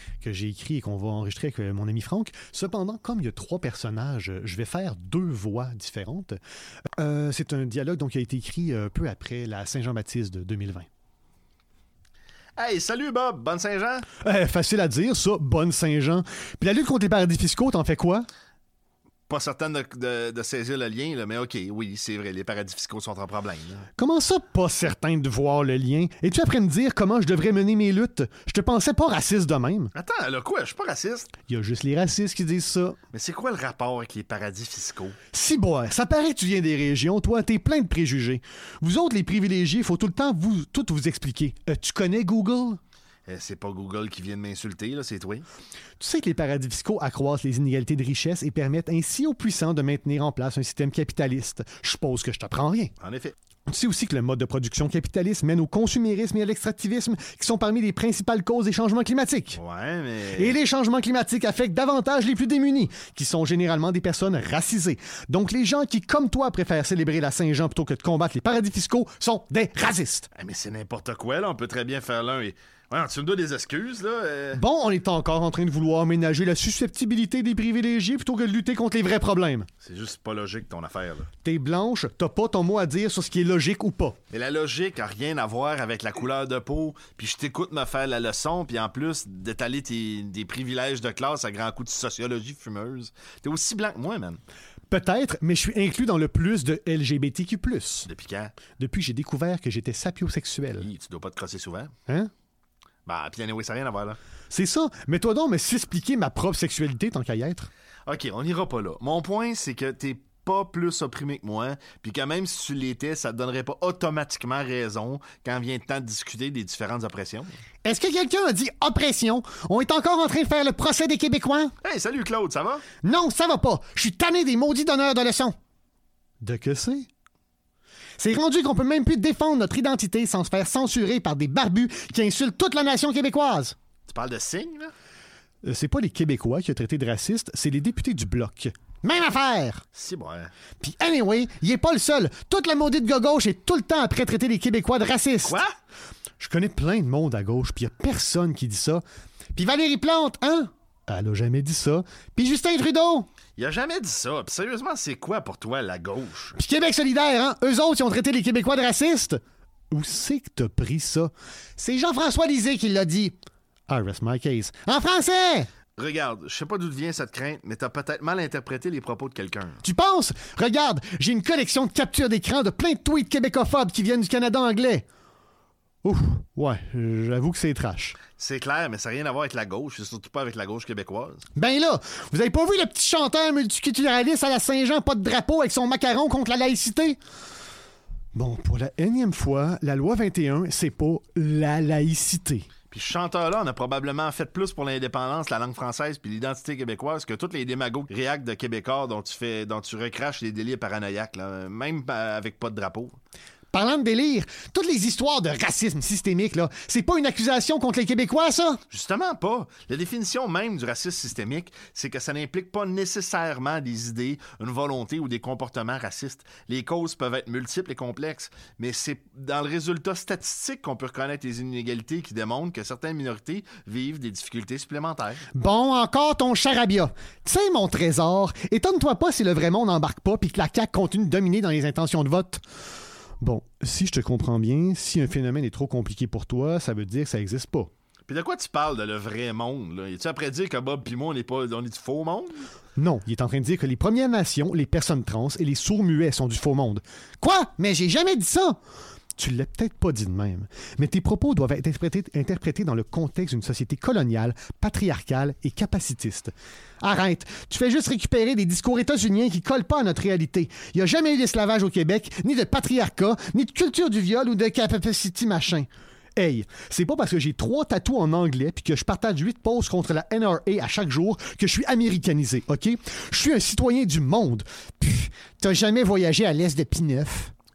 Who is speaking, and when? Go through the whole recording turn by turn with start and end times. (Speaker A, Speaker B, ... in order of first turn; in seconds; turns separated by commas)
Speaker A: 0.2-6.4, Speaker A: 7.0-10.9, Speaker B: 12.6-14.1, Speaker A: 14.2-18.2, Speaker B: 19.3-23.9, Speaker A: 24.0-29.9, Speaker B: 29.9-31.3, Speaker A: 31.5-33.0, Speaker B: 33.1-35.1, Speaker A: 35.3-42.8, Speaker B: 43.2-45.5, Speaker A: 46.0-52.9, Speaker B: 53.0-53.3, Speaker A: 53.7-59.6, Speaker B: 59.5-60.6, Speaker A: 60.4-70.3, Speaker B: 70.3-74.6, Speaker A: 74.5-79.7, Speaker B: 79.8-81.3, Speaker A: 81.4-84.2, Speaker B: 84.3-94.4, Speaker A: 94.9-98.1, Speaker B: 98.0-98.5, Speaker A: 98.8-100.9, Speaker B: 100.8-101.9, Speaker B: 103.0-104.2, Speaker A: 104.5-107.7, Speaker B: 108.1-117.5, Speaker A: 117.8-121.7, Speaker B: 121.8-122.8, Speaker A: 123.0-125.5, Speaker A: 126.4-127.1, Speaker A: 128.2-133.8, Speaker B: 134.1-134.9, Speaker A: 135.6-139.8, Speaker B: 139.9-140.5, Speaker A: 140.8-145.6, Speaker B: 145.4-145.7, Speaker A: 146.4-149.0, Speaker A: 149.5-153.3, Speaker B: 153.6-156.6, Speaker A: 156.6-159.4, Speaker A: 159.9-163.3, Speaker A: 163.9-165.7, Speaker B: 166.0-169.8, Speaker A: 169.8-175.0, Speaker A: 176.0-178.2, Speaker B: 178.4-181.4, Speaker A: 181.6-187.2, Speaker A: 188.3-192.7, Speaker B: 192.9-203.2, Speaker A: 203.7-208.8, Speaker B: 208.9-225.4, Speaker A: 225.5-232.6, Speaker A: 233.4-237.9, Speaker B: 238.3-242.6, Speaker A: 242.9-248.8, Speaker A: 249.4-277.5